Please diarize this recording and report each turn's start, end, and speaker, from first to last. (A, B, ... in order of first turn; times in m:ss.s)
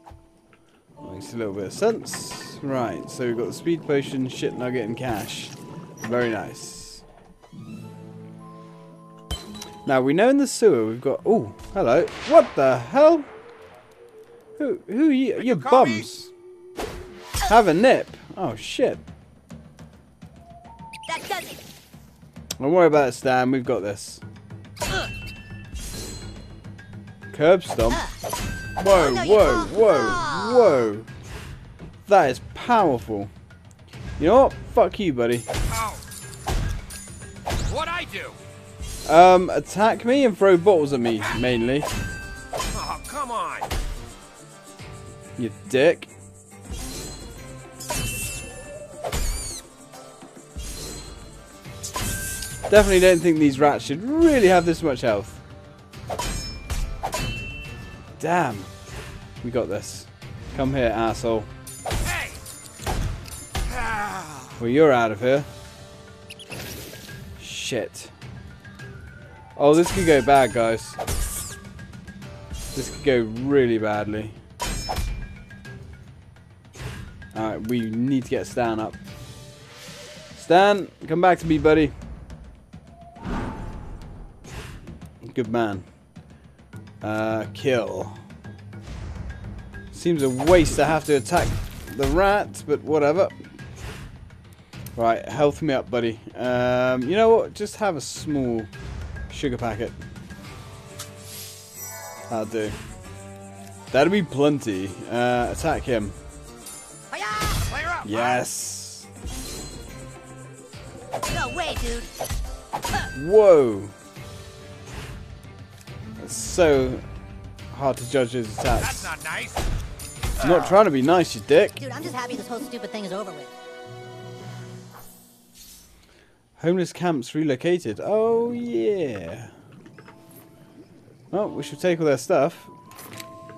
0:01.0-0:07.0 A
0:09.9-0:13.3 A
0:14.6-0:16.3 A
0:15.4-0:16.1 B
0:17.4-0:19.0 A
0:21.1-0:21.6 C
0:22.6-0:24.2 A
0:27.3-0:28.0 A
0:27.9-0:28.2 C
0:28.8-0:31.1 A
0:28.9-0:30.9 C
0:32.1-0:33.3 A
0:34.2-0:35.5 A
0:35.7-0:36.0 B
0:37.6-0:38.4 B
0:39.1-0:41.9 A
0:42.7-0:43.7 B
0:45.4-0:46.1 A
0:52.7-0:55.4 A
0:58.2-0:58.7 A
0:59.4-1:01.5 A
1:02.0-1:02.4 B
1:03.7-1:04.5 B
1:04.6-1:05.5 A
1:07.4-1:08.1 A
1:09.6-1:11.0 A
1:12.7-1:14.4 A
1:17.3-1:19.0 A
1:20.4-1:21.9 A
1:25.2-1:25.8 A
1:27.0-1:28.2 A
1:29.9-1:33.4 A
1:35.0-1:38.7 A
1:39.3-1:40.0 A
1:42.3-1:42.8 A
1:43.9-1:46.2 A
1:47.1-1:47.8 C
1:47.7-1:48.4 B
1:48.0-1:49.1 A
1:51.3-1:52.1 C
1:53.1-1:53.9 A
1:56.2-1:57.0 A
1:57.7-1:59.1 A
1:58.8-1:59.6 B
2:00.4-2:01.8 A
2:00.4-2:00.8 B
2:01.8-2:03.5 C
2:06.6-2:09.5 A
2:11.3-2:12.7 A